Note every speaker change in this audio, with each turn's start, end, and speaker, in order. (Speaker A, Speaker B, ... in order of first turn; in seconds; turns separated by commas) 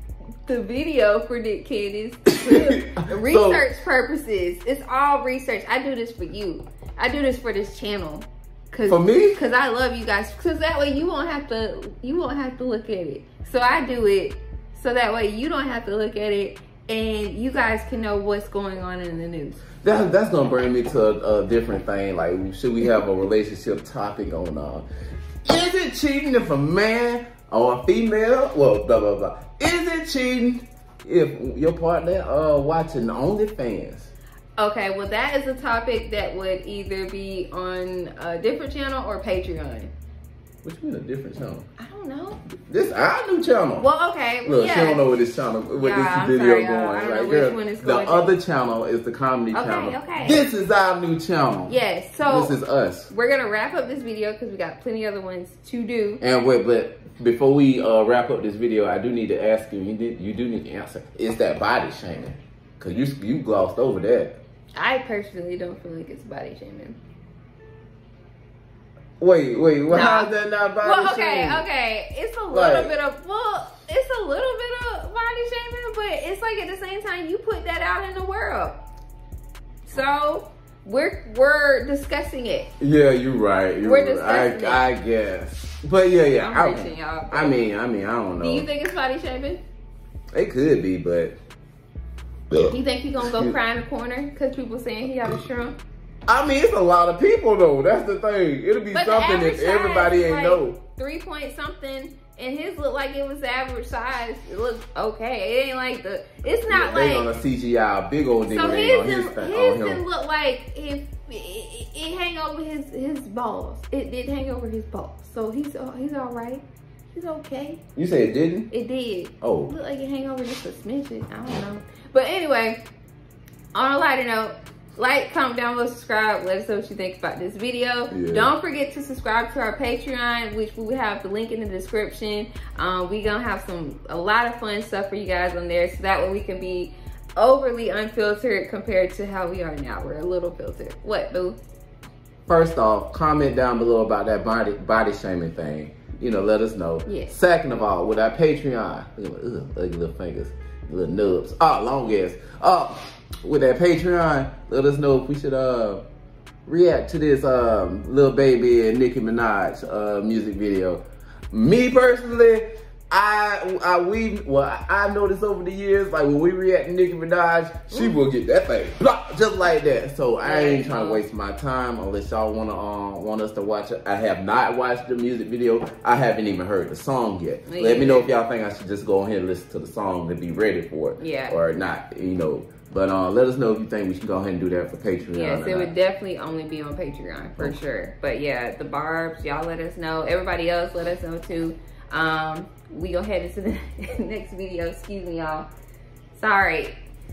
Speaker A: 0.5-19.6, Speaker B: 2.3-3.6, Speaker B: 8.8-9.4, Speaker B: 19.8-24.9, Speaker B: 25.4-34.1, Speaker A: 34.6-39.9, Speaker B: 40.6-41.6, Speaker A: 41.8-42.4, Speaker B: 42.6-43.9, Speaker A: 43.8-45.0, Speaker B: 44.4-53.1, Speaker A: 45.8-48.3, Speaker A: 49.5-50.5, Speaker A: 51.7-52.6, Speaker A: 53.1-56.2, Speaker B: 56.2-64.4, Speaker A: 64.8-67.0, Speaker B: 69.2-71.7, Speaker A: 69.9-78.8, Speaker B: 72.5-72.9, Speaker A: 79.8-82.7, Speaker B: 82.8-88.7, Speaker A: 83.8-84.9, Speaker A: 86.4-87.6, Speaker A: 88.4-89.6, Speaker B: 90.3-91.3, Speaker B: 92.5-93.6, Speaker A: 92.6-95.8, Speaker B: 96.3-100.8, Speaker A: 98.9-107.3, Speaker B: 106.7-110.0, Speaker A: 108.5-117.8, Speaker B: 118.0-118.7, Speaker A: 118.7-122.8, Speaker B: 119.4-119.7, Speaker A: 123.7-141.6, Speaker B: 128.1-128.5, Speaker B: 142.5-156.0, Speaker A: 147.1-147.3, Speaker B: 156.7-185.9, Speaker A: 170.4-171.2, Speaker A: 177.7-178.3, Speaker A: 181.2-181.6, Speaker A: 185.3-195.7, Speaker A: 196.3-196.9